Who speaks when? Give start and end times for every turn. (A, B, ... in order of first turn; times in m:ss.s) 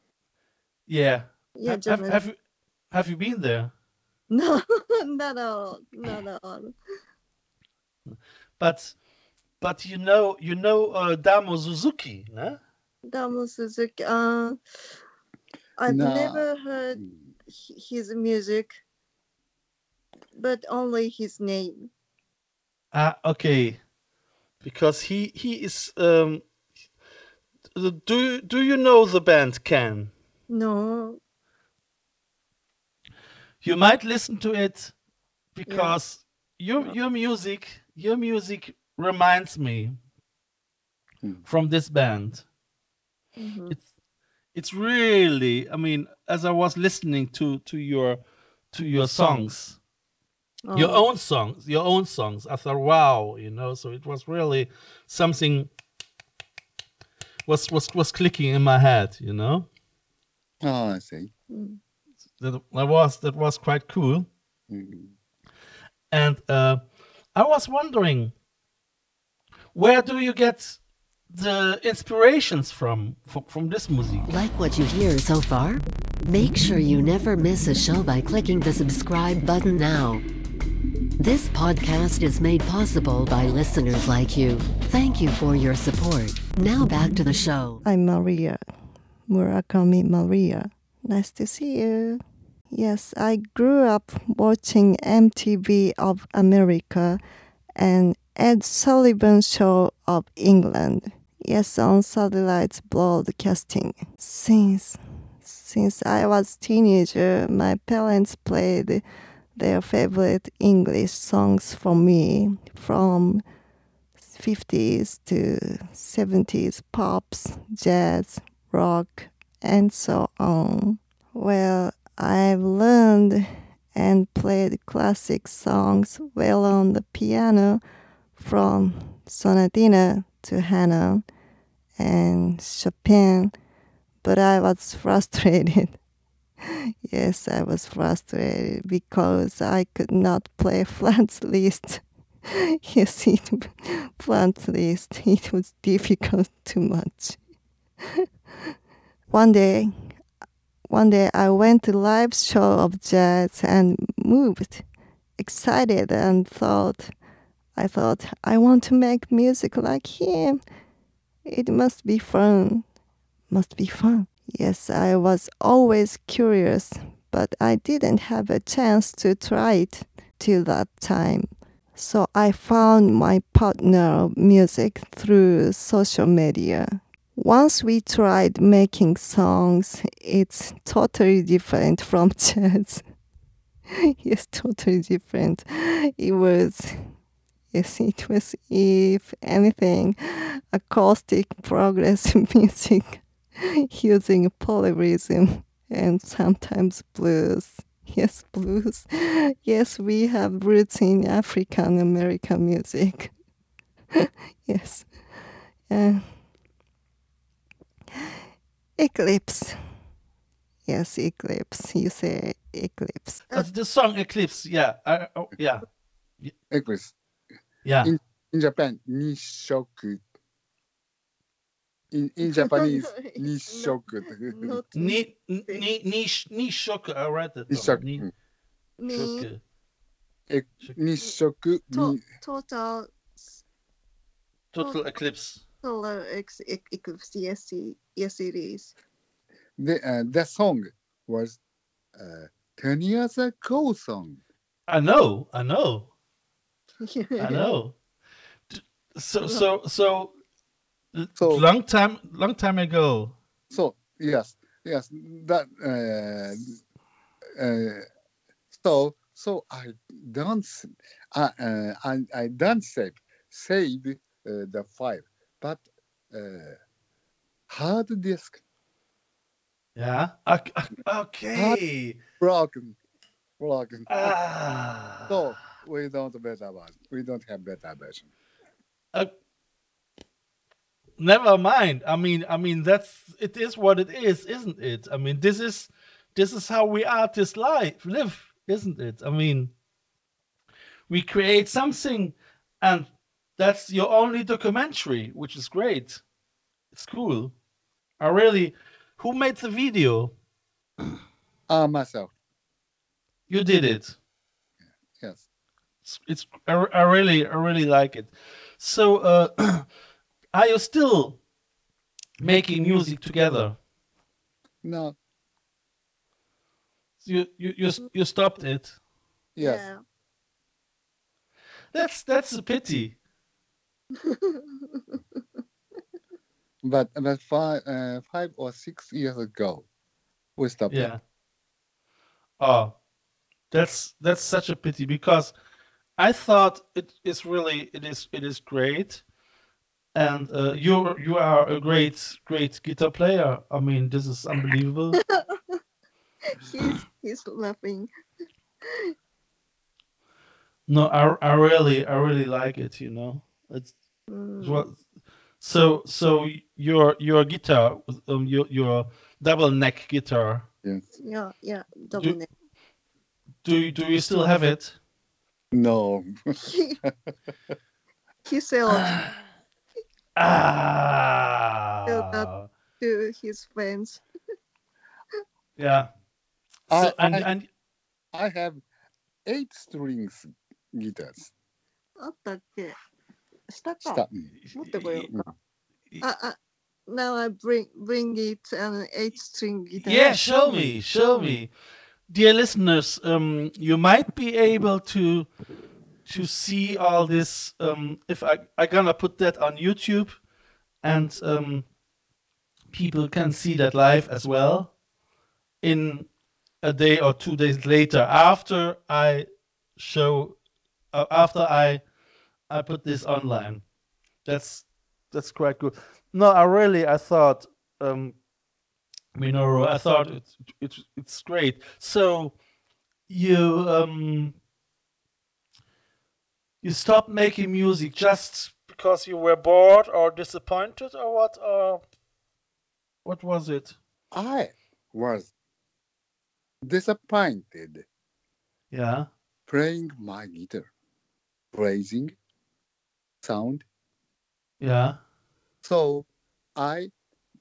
0:00.9-0:02.4 A
0:01.6-0:02.2 B
0:02.9-0:03.7 A
0:04.3-0:06.7 B
0:08.1-0:09.0 A
0:09.6-0:12.6 A
0:13.1-0:14.6 B
0:15.8-0:18.8 B
0:15.9-0:16.4 C
0:20.4-0:21.9 B
0:22.9-0:23.8 A
0:24.6-0:26.4 A
0:27.8-0:30.1 A
0:30.5-0:31.2 B
0:33.6-0:34.9 A
0:35.6-0:40.0 A
0:35.7-0:36.0 B
0:41.5-0:42.4 A
0:43.4-0:43.8 B
0:44.5-0:48.2 A
0:48.7-0:49.8 A
0:50.7-0:51.0 B
0:50.7-0:55.7 A
0:57.5-0:59.7 A
1:00.6-1:01.3 C
1:01.5-1:01.8 B
1:02.4-1:04.3 A
1:04.7-1:05.1 C
1:06.1-1:06.8 A
1:07.4-1:08.3 A
1:09.7-1:10.8 A
1:11.3-1:14.3 A
1:14.3-1:20.2 D
1:21.2-1:27.8 D
1:27.8-1:28.6 E
1:29.3-1:37.2 E
1:37.8-1:49.0 E
1:49.6-1:53.4 E
1:54.3-2:07.8 E
2:08.4-2:11.2 E
2:12.0-2:13.5 E
2:14.2-2:16.0 E
2:16.6-2:27.4 E
2:29.3-2:30.2 E
2:30.9-2:34.8 E
2:35.4-2:37.1 E
2:37.8-2:40.6 E
2:41.4-2:42.9 E
2:43.5-3:03.0 E
3:04.1-3:07.1 E
3:07.7-3:23.3 E
3:24.2-3:25.3 E
3:25.9-3:26.3 E
3:29.0-3:29.8 E
3:30.9-3:33.5 E
3:33.5-3:35.9 A
3:36.7-3:37.1 C
3:37.8-3:38.1 A
3:38.0-3:40.2 C
3:42.1-3:44.8 C
3:42.5-3:45.9 B
3:45.0-3:48.2 A
3:47.7-3:48.3 C
3:49.0-3:49.5 B
3:49.1-3:49.6 A
3:50.5-3:52.2 C
3:51.9-3:53.6 B
3:54.7-3:55.6 A
3:55.8-3:58.9 B
3:59.8-4:01.6 C
4:02.2-4:04.4 C
4:04.9-4:06.1 A
4:07.0-4:07.7 B
4:07.4-4:08.0 A
4:08.7-4:10.4 A
4:09.4-4:09.7 B
4:11.1-4:13.4 A
4:11.4-4:11.7 C
4:13.7-4:16.8 C
4:17.6-4:18.1 C
4:18.7-4:26.8 C
4:27.7-4:28.6 C
4:30.0-4:32.2 A
4:31.5-4:31.8 C
4:32.4-4:33.0 C
4:33.6-4:34.4 C
4:34.1-4:35.4 A
4:35.3-4:38.3 C
4:41.2-4:49.7 A
4:51.1-4:56.2 A
4:56.9-4:57.5 A
4:58.2-5:00.3 A
5:01.7-5:02.3 C
5:03.5-5:04.2 A
5:05.2-5:05.5 C
5:06.0-5:09.9 A
5:10.5-5:11.4 A
5:12.4-5:13.8 A
5:14.8-5:15.2 C
5:17.2-5:19.0 A
5:19.6-5:19.9 C
5:19.6-5:20.0 B
5:21.9-5:23.2 A
5:24.2-5:25.2 B
5:26.8-5:29.9 C
5:30.6-5:31.1 C
5:30.9-5:31.2 A
5:32.6-5:32.9 A
5:33.7-5:35.5 A
5:36.2-5:39.2 A
5:40.2-5:45.2 A
5:45.2-5:45.8 B
5:46.5-5:48.1 B
5:48.8-5:49.1 B
5:50.9-5:54.0 A
5:54.3-5:54.8 B
5:54.6-5:55.0 A
5:55.6-6:00.7 A
6:01.2-6:02.5 B
6:03.6-6:05.0 A
6:05.7-6:07.1 C
6:06.7-6:07.0 B
6:08.5-6:09.2 B
6:08.9-6:09.3 A
6:10.4-6:12.7 A
6:12.1-6:14.2 B
6:15.8-6:16.1 A
6:16.9-6:17.5 C
6:16.9-6:17.7 A
6:18.3-6:18.8 C
6:19.5-6:21.5 C
6:22.2-6:23.0 B
6:23.7-6:24.2 B
6:24.0-6:24.5 C
6:24.6-6:25.3 A
6:24.7-6:25.3 B
6:26.2-6:26.6 B
6:27.1-6:30.8 B
6:30.0-6:31.7 A
6:32.3-6:35.5 A
6:36.2-6:40.4 A
6:41.0-6:41.9 A
6:42.9-6:45.0 A
6:45.8-6:46.3 A
6:46.8-6:50.6 A
6:51.1-6:52.0 A
6:52.7-6:53.8 A
6:54.4-6:58.4 A
6:59.4-7:02.6 A
7:03.3-7:04.6 A
7:06.8-7:12.0 A
7:13.2-7:14.0 A
7:14.3-7:15.5 C
7:16.8-7:18.0 C
7:18.9-7:19.3 A
7:19.7-7:20.9 C
7:21.7-7:22.4 C
7:23.4-7:23.8 C
7:24.8-7:25.2 A
7:25.8-7:27.1 C